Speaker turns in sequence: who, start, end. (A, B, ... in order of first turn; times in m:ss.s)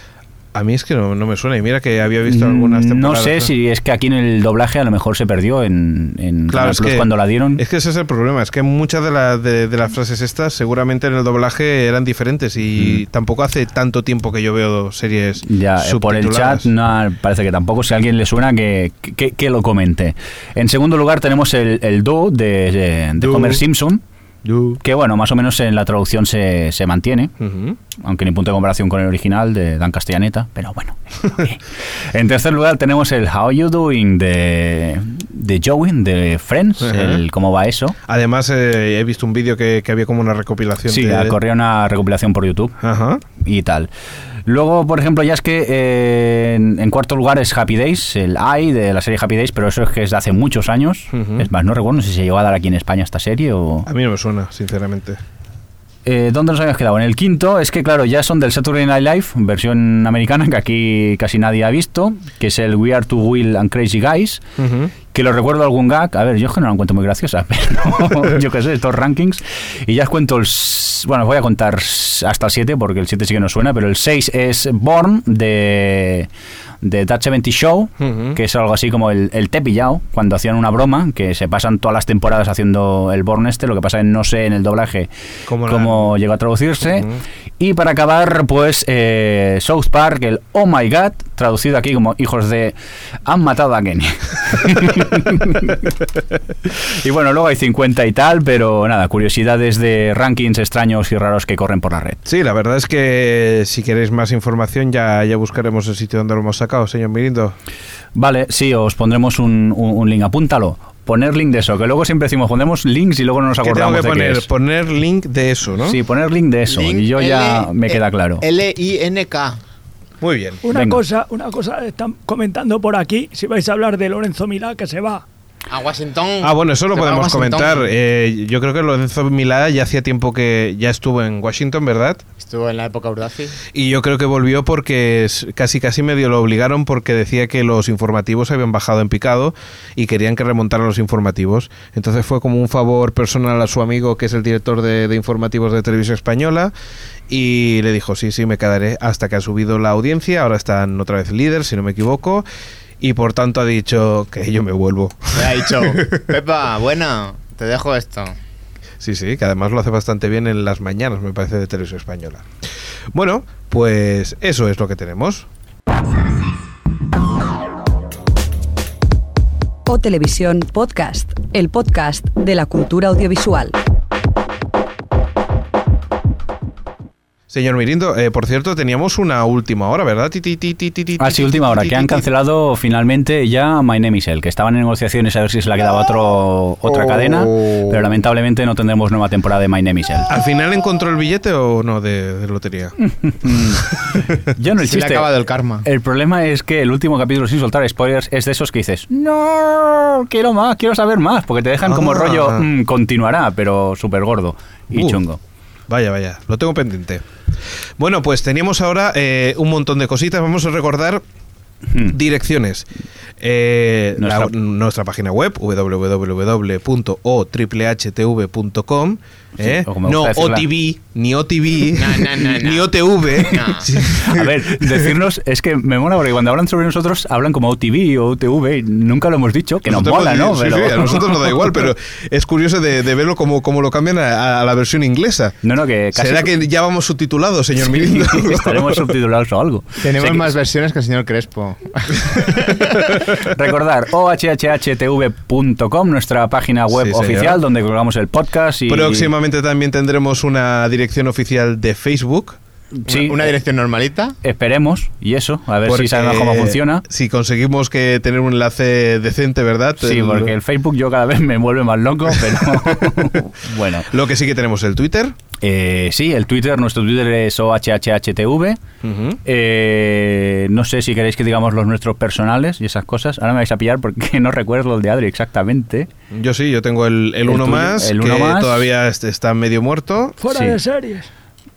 0:00.5-0:03.5 A
0:02.2-0:07.6 B
0:06.5-0:16.7 A
0:15.4-0:24.0 B
0:23.2-0:23.6 A
0:24.4-0:24.8 A
0:24.8-0:27.3 B
0:27.4-0:27.8 A
0:28.0-0:37.9 B
0:36.8-0:37.2 A
0:38.1-0:41.3 A
0:40.9-0:42.7 B
0:42.8-0:43.2 A
0:43.4-0:43.9 B
0:44.4-0:53.9 B
0:51.1-0:51.5 A
0:53.8-0:55.2 A
0:56.0-1:04.4 B
1:04.6-1:04.9 A
1:05.1-1:16.3 B
1:16.8-1:25.1 B
1:18.0-1:18.4 A
1:25.5-1:26.1 A
1:25.6-1:27.1 B
1:26.8-1:27.2 A
1:27.6-1:35.9 B
1:36.8-1:42.2 B
1:42.2-1:47.5 A
1:48.1-1:54.5 B
1:53.6-1:56.0 A
1:55.9-1:58.4 B
1:56.7-1:59.6 C
2:00.2-2:00.6 A
2:00.6-2:05.2 D
2:00.7-2:01.0 B
2:05.7-2:07.9 C
2:06.4-2:12.2 A
2:12.4-2:13.6 C
2:13.7-2:26.7 A
2:27.3-2:32.4 A
2:33.0-2:36.3 A
2:35.3-2:38.3 C
2:39.0-2:42.4 A
2:43.1-2:45.5 A
2:49.9-2:53.8 E
2:57.5-3:02.2 A
3:01.2-3:10.3 B
3:06.8-3:08.0 C
3:10.3-3:13.0 A
3:13.0-3:13.9 B
3:14.5-3:15.3 B
3:14.8-3:15.9 C
3:15.8-3:25.4 B
3:21.8-3:22.7 A
3:25.9-3:27.2 A
3:28.0-3:31.2 A
3:32.1-3:32.9 A
3:33.4-3:45.1 A
3:34.2-3:34.5 B
3:39.6-3:40.7 B
3:41.9-3:43.9 C
3:44.0-3:51.4 B
3:49.8-3:55.6 A
3:55.6-3:56.5 B
3:56.1-3:59.1 A
3:57.8-4:00.5 B
4:00.0-4:03.1 C
4:03.3-4:09.3 B
4:06.9-4:07.6 A
4:08.9-4:12.6 A
4:13.0-4:13.5 B
4:13.0-4:14.4 C
4:14.4-4:17.0 B
4:15.8-4:20.5 A
4:20.0-4:24.1 B
4:22.7-4:23.3 A
4:24.1-4:25.3 A
4:25.6-4:28.8 B
4:29.0-4:29.4 A
4:29.4-4:36.1 B
4:36.3-4:40.4 A
4:37.5-4:38.9 B
4:40.4-4:41.3 D
4:40.5-4:40.8 B